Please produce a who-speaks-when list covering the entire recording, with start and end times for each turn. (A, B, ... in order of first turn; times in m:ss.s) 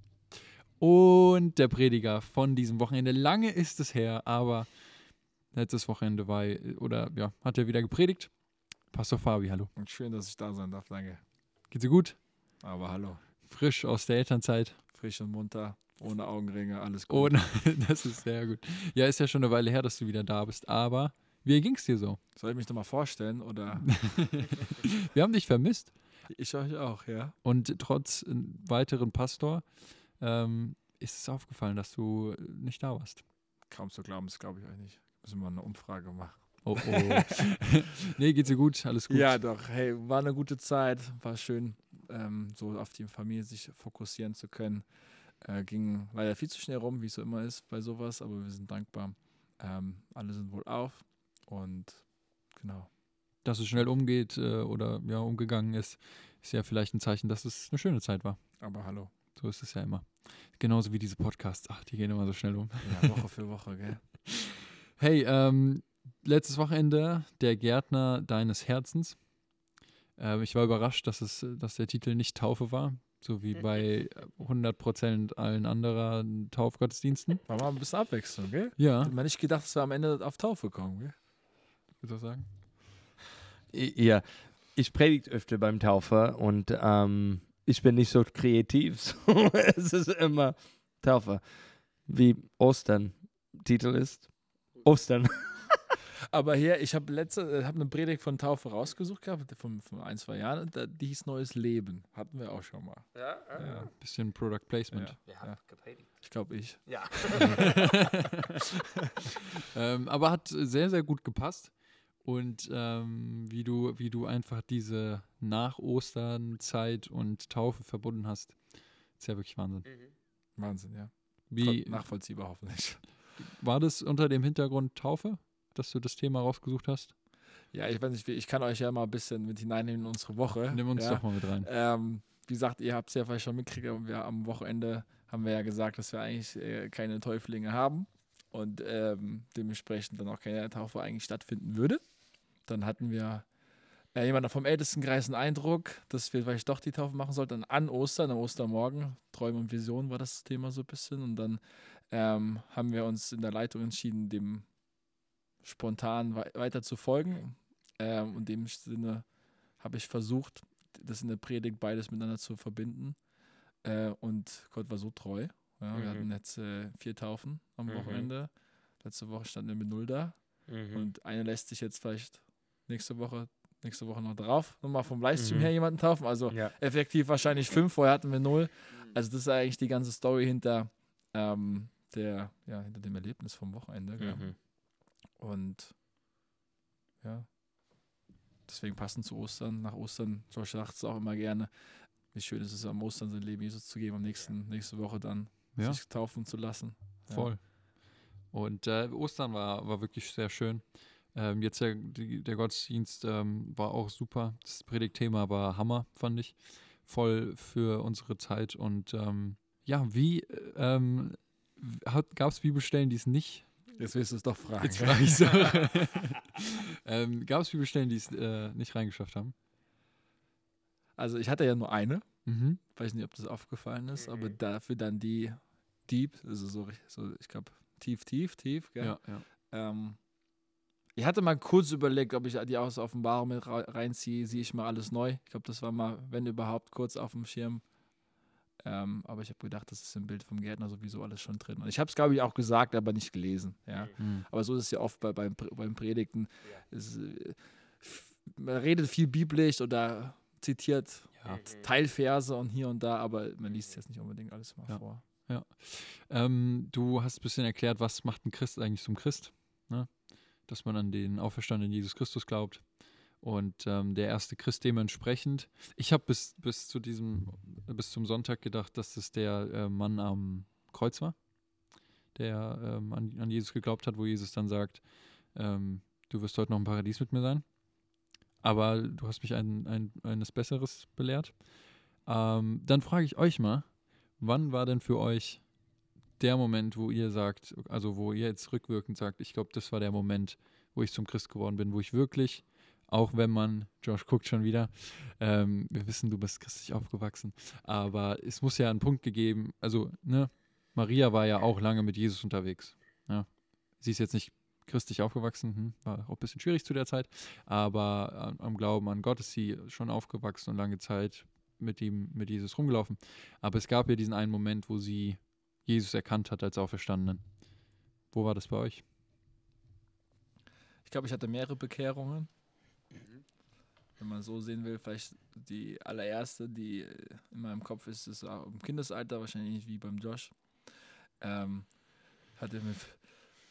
0:00.8-0:04.9 A
0:05.5-0:09.7 A
0:09.8-0:11.2 B
0:11.7-0:12.2 A
0:12.6-0:13.2 B
0:13.4-0:14.8 A
0:14.9-0:17.5 B
0:17.1-0:22.2 A
0:22.4-0:24.4 B
0:23.8-0:25.9 A
0:26.3-0:27.4 B
0:27.4-0:33.2 A
0:33.7-0:37.4 B
0:36.6-0:39.4 A
0:39.1-0:53.0 B
0:53.4-0:58.6 A
0:58.6-0:59.1 B
0:59.3-1:03.2 A
1:02.8-1:04.2 B
1:04.3-1:09.3 A
1:10.2-1:17.4 A
1:17.5-1:21.2 B
1:18.8-1:19.1 A
1:22.0-1:22.5 A
1:23.7-1:35.9 C
1:36.3-1:43.9 B
1:43.1-1:43.9 C
1:43.6-1:45.2 A
1:44.9-1:47.8 B
1:45.3-1:46.1 C
1:46.9-1:48.1 C
1:47.4-1:48.4 A
1:49.7-1:59.9 A
1:59.8-2:00.1 C
2:00.6-2:03.0 B
2:01.5-2:02.1 A
2:03.4-2:07.1 A
2:07.7-2:22.0 B
2:10.7-2:11.7 A
2:22.6-2:23.5 B
2:24.1-2:34.7 B
2:35.6-2:43.2 B
2:43.8-3:04.7 B
2:45.9-2:46.3 C
2:47.9-2:48.3 C
2:50.7-2:51.1 C
2:55.4-2:55.7 C
2:56.5-2:56.7 C
3:04.2-3:04.6 C
3:05.4-3:06.0 B
3:07.2-3:07.5 B
3:08.7-3:11.7 B
3:12.2-3:17.5 B
3:15.7-3:16.0 A
3:17.3-3:33.8 A
3:33.9-3:35.7 B
3:34.8-3:39.5 A
3:41.2-3:50.2 B
3:42.4-3:42.8 A
3:44.3-3:44.6 C
3:49.0-3:49.4 A
3:51.2-3:57.8 B
3:58.8-4:15.2 B
4:04.2-4:04.4 A
4:11.5-4:11.9 C
4:14.9-4:31.4 A
4:32.3-4:37.7 A
4:38.6-4:45.7 A
4:46.4-5:17.5 A
5:18.3-5:19.0 A
5:21.0-5:22.5 B
5:24.2-5:32.0 B
5:32.6-5:33.3 B